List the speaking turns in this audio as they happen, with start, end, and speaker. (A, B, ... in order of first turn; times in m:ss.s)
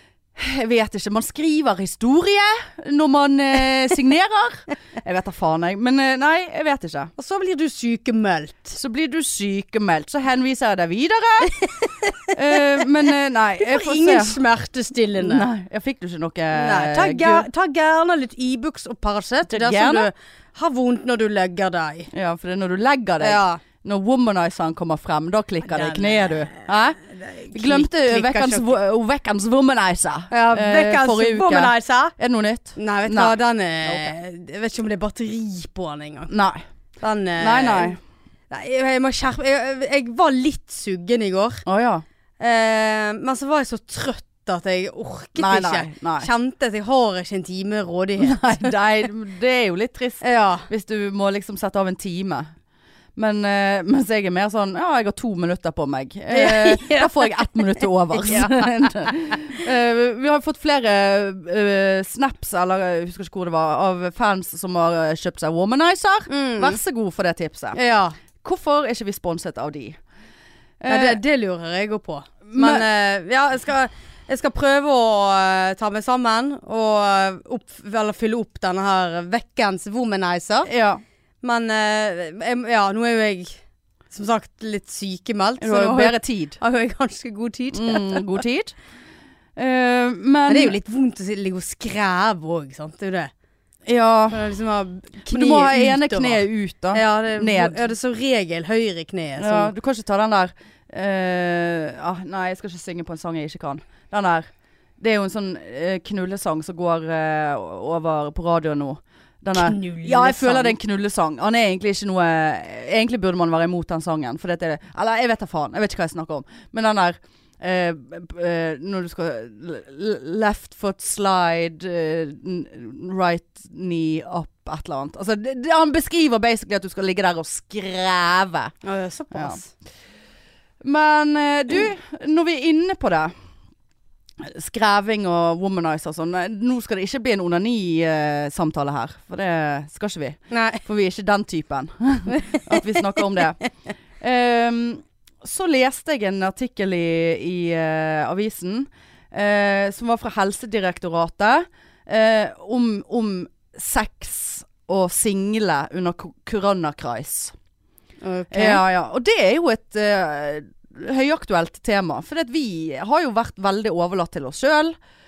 0:00.4-0:07.1 A
0:07.2-0:08.8 B
0:08.7-0:11.6 A
0:11.5-0:12.8 B
0:12.3-0:14.4 A
0:13.6-0:15.5 B
0:15.2-0:17.4 A
0:16.5-0:22.1 B
0:19.5-0:20.1 A
0:22.1-0:27.0 A
0:23.2-0:23.6 B
0:25.6-0:28.7 B
0:27.5-0:34.1 A
0:30.3-0:32.1 B
0:32.8-0:36.3 B
0:36.3-0:36.6 A
0:37.0-0:38.0 B
0:37.4-0:38.0 A
0:38.5-0:41.6 B
0:41.6-0:42.0 A
0:42.4-0:48.7 B
0:45.4-0:46.3 A
0:48.2-0:52.5 A
0:50.2-0:50.7 B
0:53.2-1:07.8 A
0:56.3-0:59.1 B
1:06.3-1:06.8 B
1:07.7-1:08.2 B
1:08.4-1:10.0 A
1:10.8-1:11.2 A
1:10.9-1:20.7 B
1:12.5-1:12.8 A
1:20.7-1:21.0 A
1:21.4-1:23.6 B
1:24.1-1:28.4 B
1:25.6-1:26.6 A
1:27.7-1:28.7 A
1:29.6-1:30.8 A
1:30.5-1:33.3 B
1:33.8-1:34.4 A
1:34.3-1:39.7 B
1:35.3-1:37.8 A
1:39.4-1:44.5 A
1:45.0-2:08.7 A
1:49.5-1:50.8 B
2:08.8-2:09.7 B
2:09.3-2:09.6 A
2:10.8-2:13.3 A
2:14.4-2:23.6 A
2:20.5-2:20.8 B
2:22.3-2:22.8 B
2:23.3-2:23.6 B
2:24.2-2:37.5 A
2:38.2-2:38.8 B
2:38.5-2:45.0 A